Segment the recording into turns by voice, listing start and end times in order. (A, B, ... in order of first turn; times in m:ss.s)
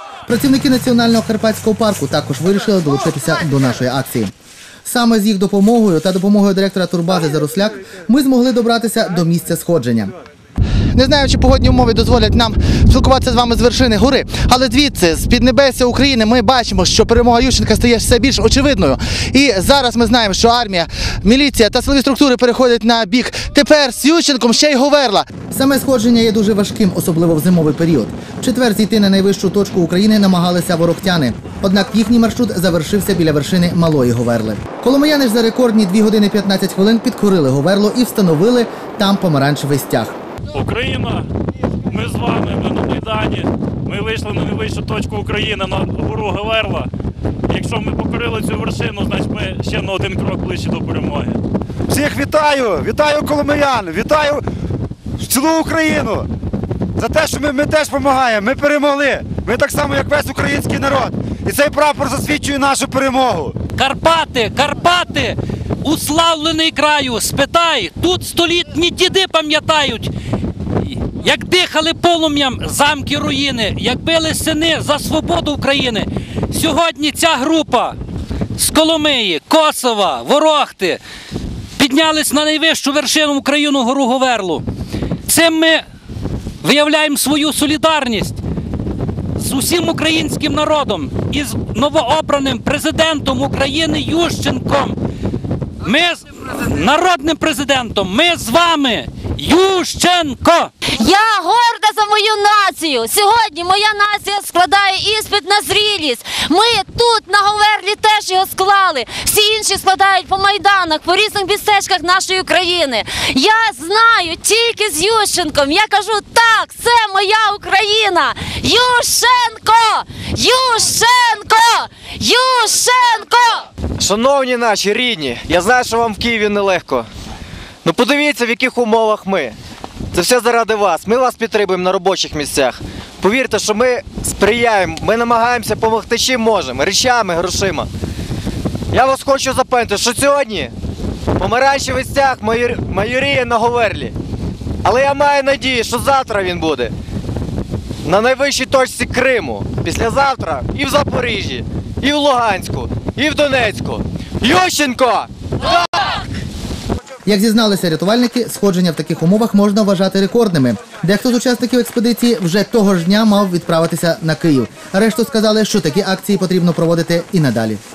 0:00.3-0:04.3 A
0:04.8-0:10.1 A
0:11.0-0:40.2 A
0:40.5-0:41.3 B
0:41.9-0:46.9 B
0:47.5-0:51.4 B
0:51.9-0:54.4 C
0:55.2-0:56.3 C
0:57.0-1:03.5 C
1:03.7-1:10.1 D
1:10.8-1:18.0 D
1:18.6-1:21.0 D
1:21.8-1:24.6 D
1:25.2-1:25.8 D
1:26.6-1:28.4 D
1:29.4-1:35.0 D
1:35.8-1:40.7 D
1:40.9-2:03.7 E
2:04.0-2:07.1 F
2:07.8-2:09.6 F
2:10.1-2:17.9 F
2:18.9-2:20.7 F
2:21.4-2:24.1 F
2:24.8-2:26.9 F
2:28.0-2:36.1 F
2:37.2-2:47.8 A